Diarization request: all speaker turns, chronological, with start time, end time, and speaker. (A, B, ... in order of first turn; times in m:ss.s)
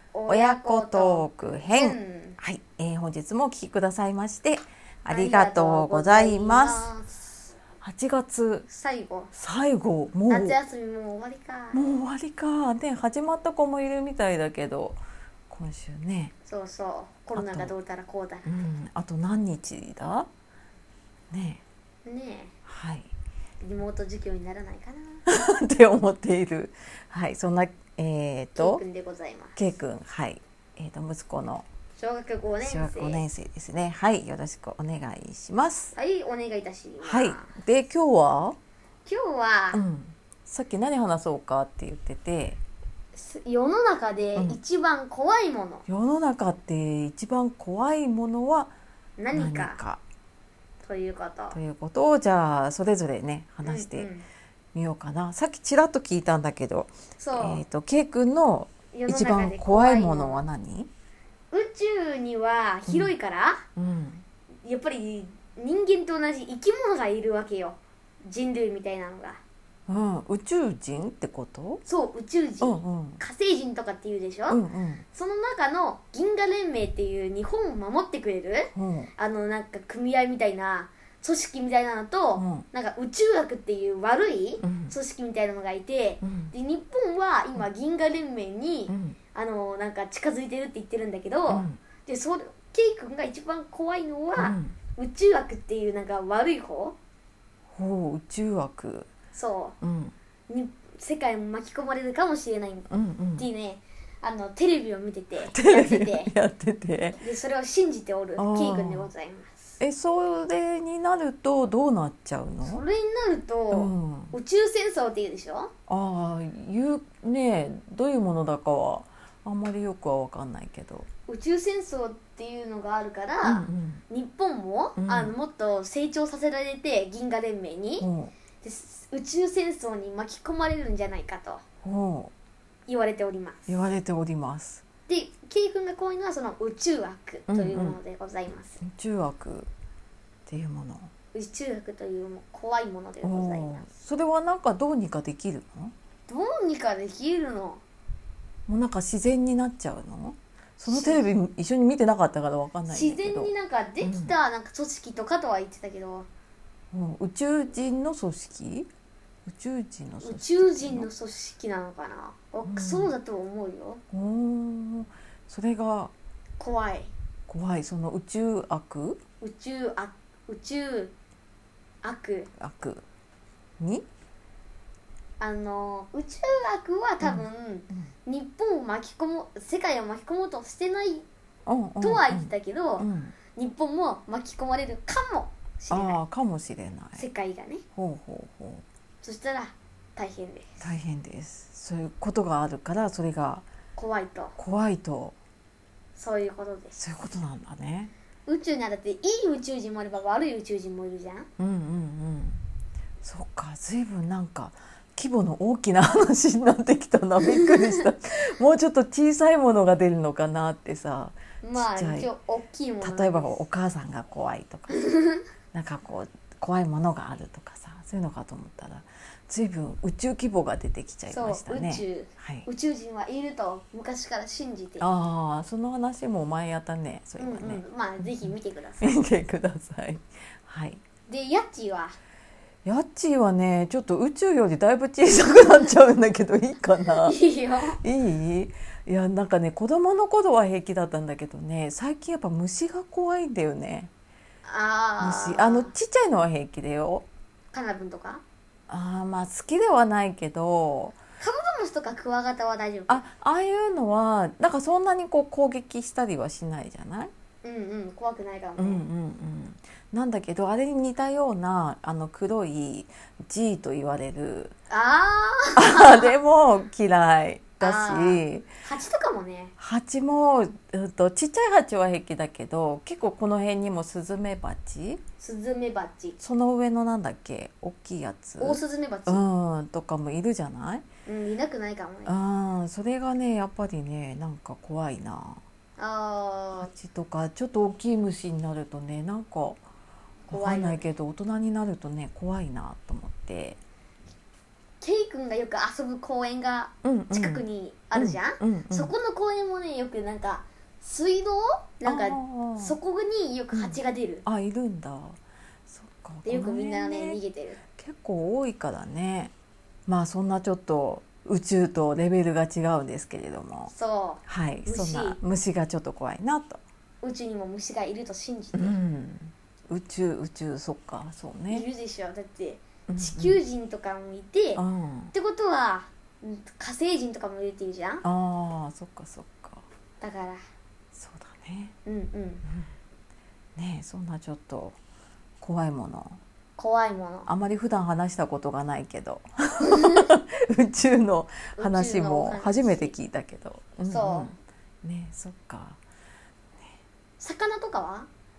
0:00.1-0:02.4 A
0:00.3-0:06.9 B
0:05.1-0:07.5 A
0:07.8-0:08.7 B
0:08.7-0:09.3 A
0:09.3-0:10.6 B
0:10.3-0:11.9 A
0:11.7-0:16.4 B
0:16.4-0:18.7 A
0:17.3-0:17.7 B
0:18.4-0:20.3 B
0:21.3-0:21.6 B
0:22.0-0:22.6 A
0:22.6-0:23.1 B
0:23.6-0:25.2 A
0:25.3-0:28.8 B
0:28.6-0:29.6 A
0:29.6-0:31.7 B
0:32.0-0:33.2 A
0:32.6-0:36.0 B
0:36.0-0:37.6 A
0:37.0-0:38.6 B
0:39.0-0:39.8 A
0:39.7-0:42.6 B
0:43.2-0:45.8 A
0:45.9-0:48.7 B
0:49.2-0:49.8 A
0:49.3-0:50.0 B
0:50.8-0:51.6 A
0:51.5-0:54.1 B
0:53.6-0:54.3 A
0:54.7-1:00.9 B
0:57.2-0:57.6 A
0:58.9-1:00.4 A
1:01.5-1:03.7 A
1:02.9-1:03.1 B
1:03.8-1:04.2 B
1:04.6-1:09.4 A
1:09.9-1:11.8 B
1:11.8-1:37.0 A
1:12.6-1:13.2 B
1:14.5-1:15.1 B
1:18.7-1:19.1 B
1:22.4-1:22.7 B
1:24.6-1:25.0 B
1:26.2-1:26.5 B
1:28.9-1:29.2 B
1:31.5-1:31.8 B
1:34.4-1:34.8 B
1:37.7-1:39.1 B
1:39.3-1:39.8 A
1:39.8-1:40.1 B
1:40.5-1:46.3 A
1:42.9-1:43.5 B
1:45.4-1:47.2 B
1:47.2-1:49.8 A
1:48.4-1:49.1 B
1:49.8-1:52.8 B
1:52.6-1:55.7 A
1:53.7-1:54.4 B
1:55.9-2:01.1 B
2:01.3-2:08.1 A
2:03.4-2:04.0 B
2:05.0-2:05.3 B
2:08.0-2:08.4 B
2:08.6-2:11.6 A
2:11.8-2:12.3 B
2:12.9-2:13.6 A
2:13.7-2:14.9 B
2:15.0-2:18.8 A
2:17.5-2:18.0 B
2:18.8-2:19.7 B
2:20.5-2:21.1 B
2:21.3-2:23.9 A
2:23.2-2:25.9 B
2:26.3-2:27.8 A
2:28.7-2:34.4 B
2:30.9-2:31.3 A
2:32.9-2:36.3 A
2:36.9-2:38.9 B
2:39.4-2:41.1 B
2:40.2-2:44.0 A
2:42.6-2:43.1 B
2:44.1-2:46.1 B
2:46.6-2:47.1 A
2:47.5-2:49.2 B
2:49.4-2:51.2 A
2:52.0-2:52.5 A
2:52.6-2:53.0 B
2:53.8-2:54.1 B
2:55.4-3:01.3 A
2:57.2-2:58.1 B
3:01.7-3:03.4 B
3:02.0-3:06.2 A
3:05.9-3:07.2 B
3:07.2-3:07.8 A
3:08.0-3:08.8 B
3:09.2-3:10.9 A
3:10.8-3:13.6 B
3:14.0-3:14.6 A
3:14.6-3:15.4 B
3:16.2-3:17.0 A
3:17.0-3:18.1 B
3:18.5-3:21.5 A
3:21.6-3:22.6 B
3:23.2-3:32.3 B
3:31.6-3:33.6 A
3:33.0-3:35.0 B
3:34.9-3:35.4 A
3:35.7-3:42.7 B
3:41.3-3:45.1 A
3:45.0-3:51.0 B
3:47.4-3:49.2 A
3:51.3-3:52.2 A
3:52.8-3:57.4 B
3:57.0-3:58.0 A
3:58.0-4:04.1 B
4:04.6-4:05.9 A
4:05.2-4:07.3 B
4:07.7-4:08.4 A
4:08.9-4:11.2 B
4:11.4-4:13.2 A
4:13.1-4:17.3 B
4:17.6-4:19.0 A
4:18.8-4:24.7 B
4:24.9-4:26.4 A
4:25.8-4:28.8 B
4:27.8-4:29.7 A
4:29.8-4:35.2 B
4:35.4-4:36.4 A
4:36.4-4:41.1 B
4:38.6-4:39.4 A
4:41.3-4:42.4 A
4:42.2-4:45.6 B
4:46.0-4:46.9 A
4:46.8-4:49.8 B
4:50.5-4:51.1 A
4:50.5-4:53.8 B
4:55.0-5:04.4 A
4:57.0-4:59.1 B
5:02.0-5:03.0 B
5:03.7-5:09.5 B
5:06.4-5:07.9 A
5:10.1-5:13.9 B
5:13.9-5:15.4 A
5:14.5-5:16.8 B
5:17.2-5:19.0 A
5:18.7-5:21.9 B
5:21.7-5:28.2 A
5:23.1-5:23.6 B
5:24.8-5:25.3 B
5:28.2-5:29.8 B
5:30.2-5:30.6 A
5:31.1-5:32.0 B
5:32.0-5:32.6 A
5:32.6-5:32.9 B
5:33.8-5:35.0 B
5:35.6-5:36.4 B
5:36.8-5:37.5 A
5:37.5-5:46.0 B
5:39.8-5:40.3 A
5:41.8-5:43.1 A
5:44.0-5:44.5 A
5:47.4-5:48.3 A